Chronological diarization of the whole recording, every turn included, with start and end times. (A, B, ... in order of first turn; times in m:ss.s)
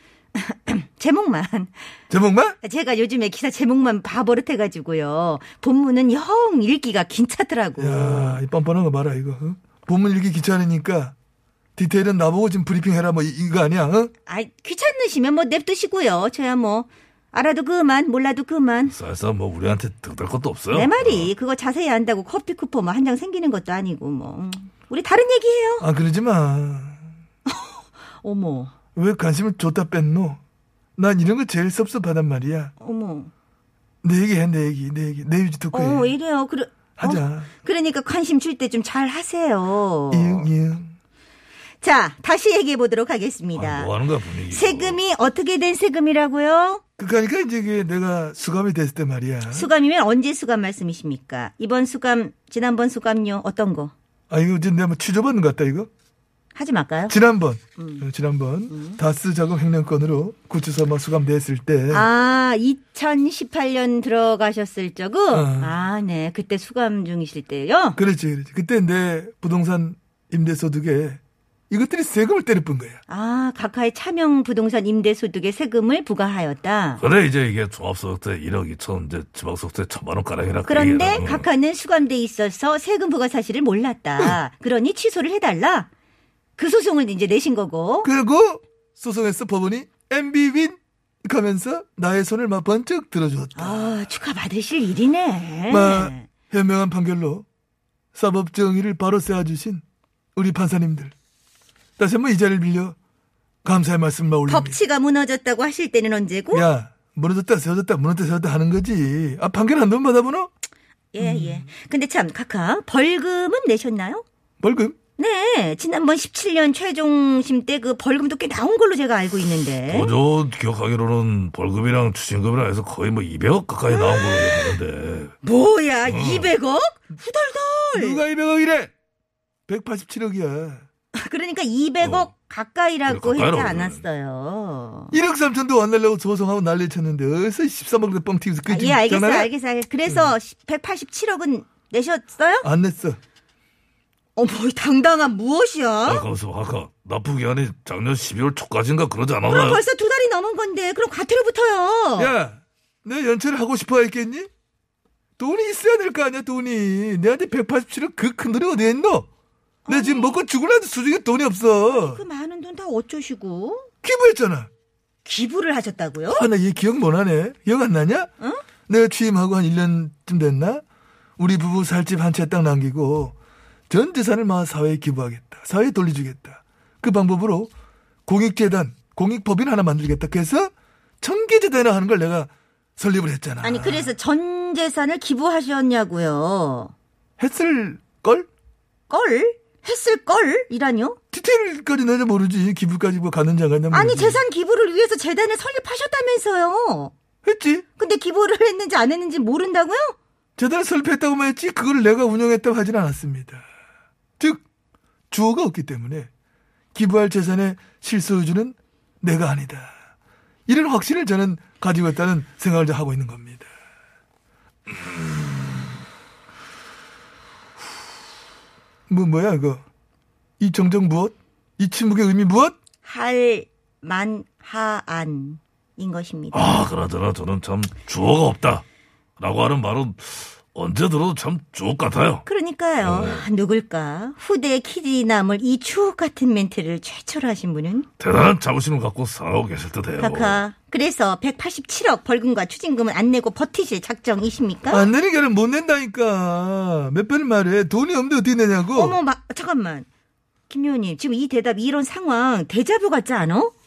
0:00.4-0:01.7 A
0:02.1-0:02.6 B
0:02.6-0:08.4 A
0:07.8-0:11.2 B
0:11.8-0:14.1 B
0:14.3-0:19.0 A
0:18.9-0:21.3 C
0:20.7-0:25.9 A
0:25.8-0:27.1 B
0:27.5-0:28.7 A
0:29.0-0:30.4 B
0:31.0-0:32.7 B
0:32.8-0:33.3 A
0:34.0-0:36.2 B
0:35.7-0:40.5 A
0:37.0-0:37.5 B
0:40.1-0:41.0 B
0:41.8-0:46.8 A
0:43.6-0:45.0 C
0:47.0-0:49.7 B
0:49.5-0:53.9 A
0:54.3-0:55.9 B
0:56.5-0:57.2 A
0:57.1-1:02.1 B
0:57.8-0:58.1 A
0:58.7-0:59.0 A
1:01.9-1:08.0 A
1:05.3-1:05.7 B
1:08.0-1:13.0 B
1:13.1-1:17.0 A
1:17.0-1:21.5 C
1:20.7-1:25.9 A
1:26.6-1:28.1 A
1:28.0-1:34.0 B
1:33.6-1:36.3 A
1:35.7-1:37.4 B
1:38.1-1:39.8 B
1:40.4-1:41.1 B
1:42.0-1:43.0 B
1:43.6-1:44.8 B
1:44.5-1:46.7 A
1:46.5-1:50.5 B
1:51.1-1:54.2 A
1:51.2-1:51.7 B
1:54.6-1:55.0 B
1:55.2-2:00.1 A
1:59.9-2:05.4 C
2:03.9-2:04.8 A
2:05.4-2:08.2 A
2:06.0-2:06.5 C
2:07.9-2:08.9 B
2:09.7-2:10.8 B
2:11.2-2:15.2 A
2:12.0-2:12.3 C
2:13.1-2:14.0 C
2:15.1-2:19.5 B
2:18.7-2:22.7 A
2:20.1-2:20.3 B
2:22.6-2:23.2 B
2:24.4-2:26.3 A
2:26.1-2:29.8 C
2:29.5-2:32.3 A
2:32.2-2:34.5 B
2:35.4-2:39.3 B
2:39.8-2:40.4 A
2:39.9-2:42.2 B
2:41.9-2:43.9 A
2:44.0-2:44.7 B
2:45.2-2:46.4 A
2:46.3-2:48.3 B
2:48.9-2:50.8 B
2:51.4-2:53.3 B
2:53.9-2:57.7 B
2:58.3-3:04.1 B
3:03.6-3:06.9 A
3:07.4-3:08.5 B
3:09.1-3:11.2 A
3:11.3-3:14.4 B
3:13.9-3:17.1 A
3:17.4-3:17.8 B
3:18.0-3:20.2 A
3:20.6-3:23.7 B
3:24.4-3:24.6 B
3:25.3-3:26.3 B
3:27.0-3:30.0 B
3:30.7-3:33.7 B
3:39.1-3:39.8 B
3:40.6-3:42.8 B
3:43.0-3:46.8 A
3:46.5-3:48.8 C
3:49.4-3:52.4 C
3:52.5-3:58.1 A
3:53.0-3:53.4 C
3:58.2-4:00.6 C
4:00.2-4:05.1 A
4:04.9-4:09.2 B
4:08.9-4:10.1 A
4:10.7-4:13.7 A